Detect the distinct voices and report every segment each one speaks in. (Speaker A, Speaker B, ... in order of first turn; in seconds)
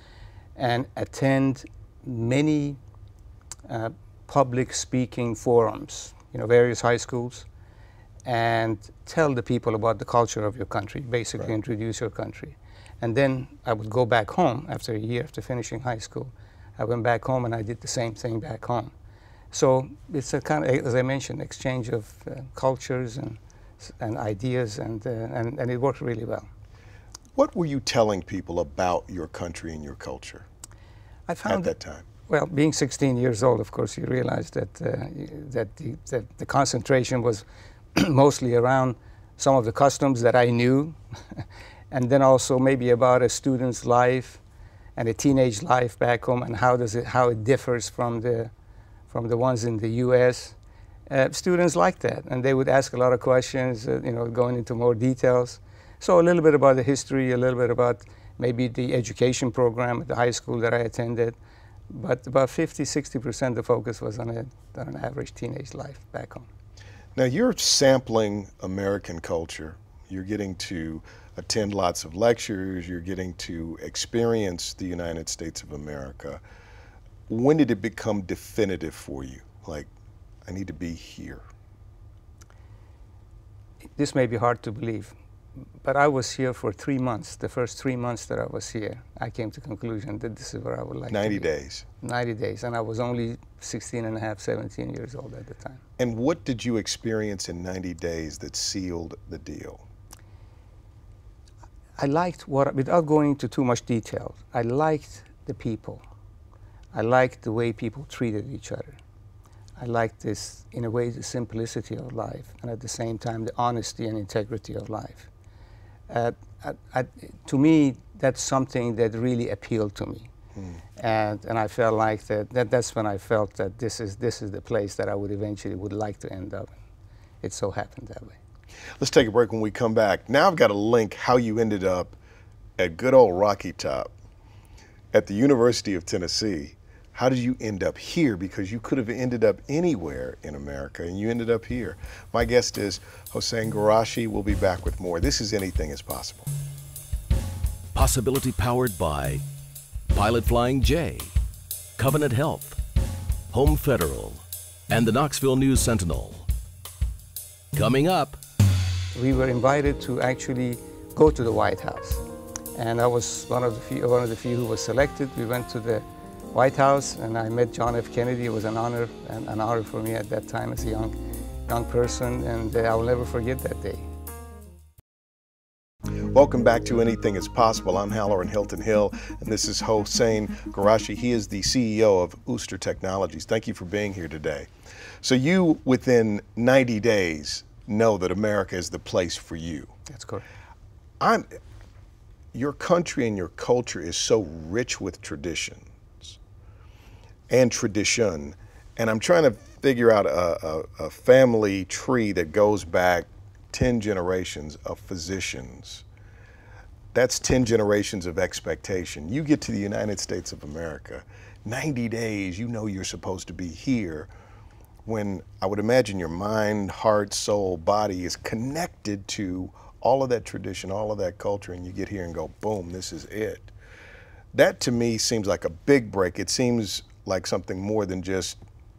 Speaker A: 0.6-2.8, 3.7-7.5, 8.2-18.9, 19.5-26.5, 31.3-31.7, 32.2-37.4, 37.9-44.4, 45.0-48.5, 49.1-50.5, 51.1-61.4, 61.9-66.5, 84.0-85.1, 85.8-91.5, 92.0-95.8, 102.0-106.0, 106.9-109.0, 109.8-115.3, 116.1-120.3, 121.0-126.7, 127.4-128.4, 159.1-162.2, 162.7-171.1, 171.7-174.0, 190.1-190.4
Speaker B: 27.4-30.4, 31.4-32.0, 67.1-76.4, 77.3-79.9, 80.5-81.4, 91.1-91.8, 96.0-99.8, 129.0-132.1, 132.8-134.1, 135.1-146.5, 176.2-184.7, 185.2-189.9, 191.2-191.5, 192.5-196.4, 197.5-206.0, 207.1-214.3, 215.1-223.7, 224.5-228.6
Speaker C: 147.9-149.4, 150.1-151.3, 152.0-152.8, 153.5-156.4, 157.7-158.4